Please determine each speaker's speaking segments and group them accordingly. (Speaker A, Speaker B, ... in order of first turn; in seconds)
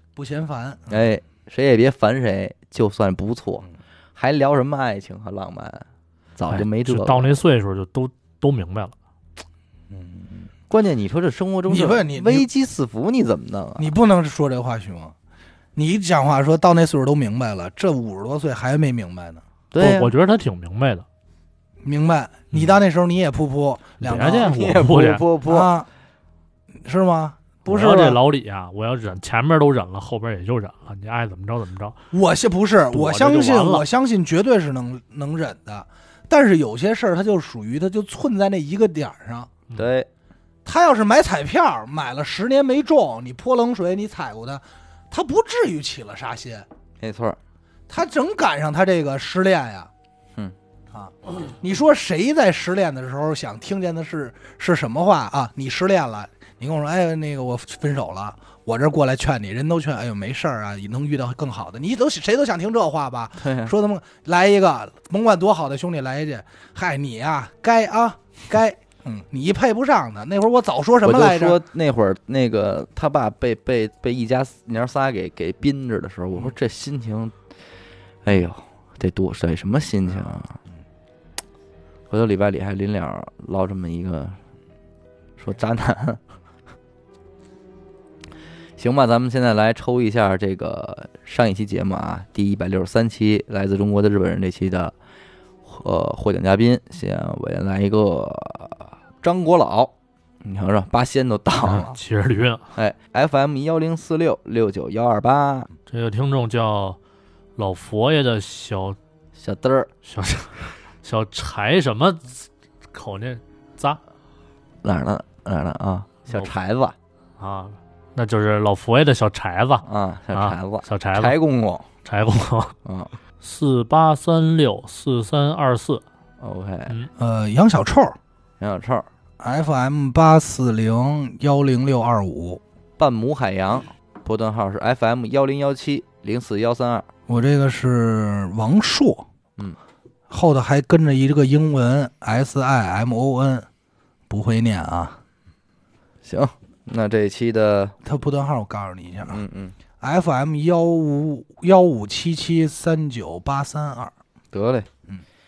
Speaker A: 0.1-1.1, 9.9-10.5, 11.7-12.5, 13.8-15.1, 15.8-19.4, 21.8-24.7, 25.5-25.9, 26.7-28.2, 32.1-39.5, 40.6-46.7, 47.9-49.9, 50.9-71.6, 127.2-128.2, 129.4-132.6, 137.3-139.3, 140.3-143.7, 144.3-145.2, 148.1-149.4, 150.0-154.1
Speaker B: 0.9-7.3, 10.7-13.9, 19.7-20.1, 24.2-25.7, 39.7-40.1, 47.0-47.4, 63.4-63.7, 71.0-77.3, 78.2-80.6, 82.1-84.4, 85.4-86.2, 88.8-94.9, 95.6-102.0, 102.7-105.7, 109.4-109.9, 114.8-116.9, 119.8-121.9, 122.8-123.1, 126.4-127.0, 128.6-129.1, 133.0-137.1, 146.2-147.9, 149.3-149.8, 154.5-154.9
Speaker C: 6.5-8.9, 19.8-21.1, 24.0-25.2, 27.7-32.0, 32.9-33.8, 101.7-102.7, 105.9-107.0, 107.5-109.0, 110.0-114.0, 117.4-121.4, 122.0-122.7, 123.4-126.0